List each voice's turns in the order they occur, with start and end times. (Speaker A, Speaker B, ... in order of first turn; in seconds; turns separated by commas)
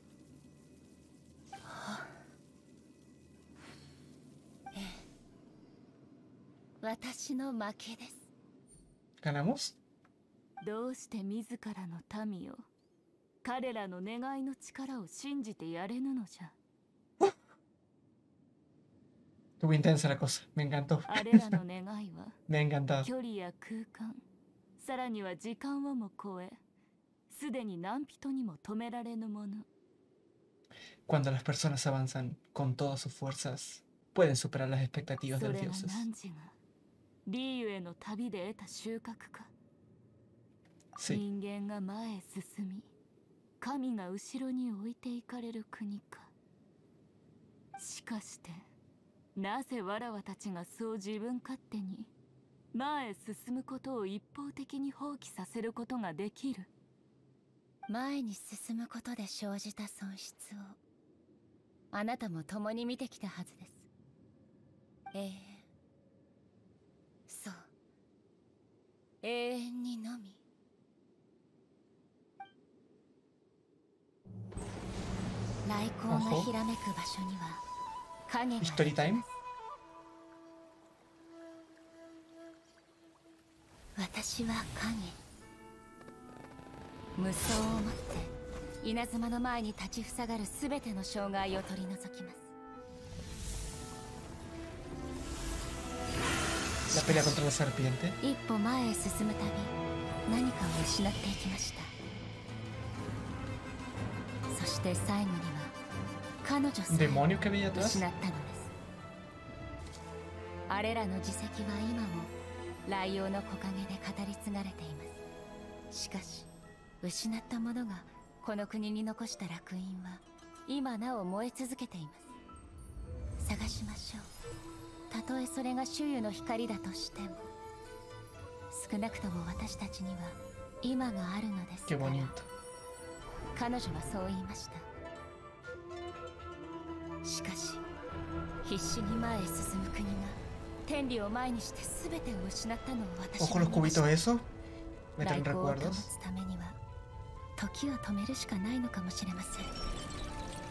Speaker A: 1.6-2.2, Speaker A: 4.7-5.0, Speaker A: 6.8-8.3, Speaker B: 9.2-9.8, Speaker C: 10.6-12.7, Speaker C: 13.4-16.6, Speaker B: 19.6-21.6, Speaker C: 21.1-22.4, Speaker B: 22.5-23.1, Speaker C: 23.0-24.2, Speaker C: 24.8-26.6, Speaker C: 27.3-29.7, Speaker B: 31.1-36.1, Speaker C: 35.3-36.6, Speaker C: 37.2-39.5, Speaker B: 41.0-41.2, Speaker C: 41.1-42.9, Speaker C: 43.6-46.3, Speaker C: 47.8-48.7, Speaker C: 49.4-52.1, Speaker C: 52.7-56.7, Speaker A: 57.9-60.8, Speaker A: 61.9-63.9, Speaker A: 65.1-65.7, Speaker A: 67.3-67.7, Speaker A: 69.2-70.4, Speaker A: 75.6-77.6, Speaker B: 76.1-76.5, Speaker A: 78.3-79.4, Speaker B: 78.6-79.2, Speaker A: 84.0-85.2, Speaker A: 87.2-92.5, Speaker A: 96.9-97.4, Speaker B: 96.9-98.2, Speaker A: 98.2-99.8, Speaker A: 100.3-102.0, Speaker A: 104.5-105.8, Speaker A: 106.4-108.7, Speaker B: 106.9-108.0, Speaker A: 110.7-112.3, Speaker A: 112.9-115.2, Speaker A: 115.9-116.5, Speaker A: 117.0-122.4, Speaker A: 123.4-124.3, Speaker A: 125.1-127.5, Speaker A: 128.7-132.3, Speaker B: 131.9-132.5, Speaker A: 133.6-134.9, Speaker A: 137.2-137.8, Speaker A: 138.6-144.1, Speaker B: 143.4-144.5, Speaker B: 145.2-146.1, Speaker A: 145.2-146.8, Speaker A: 147.6-149.7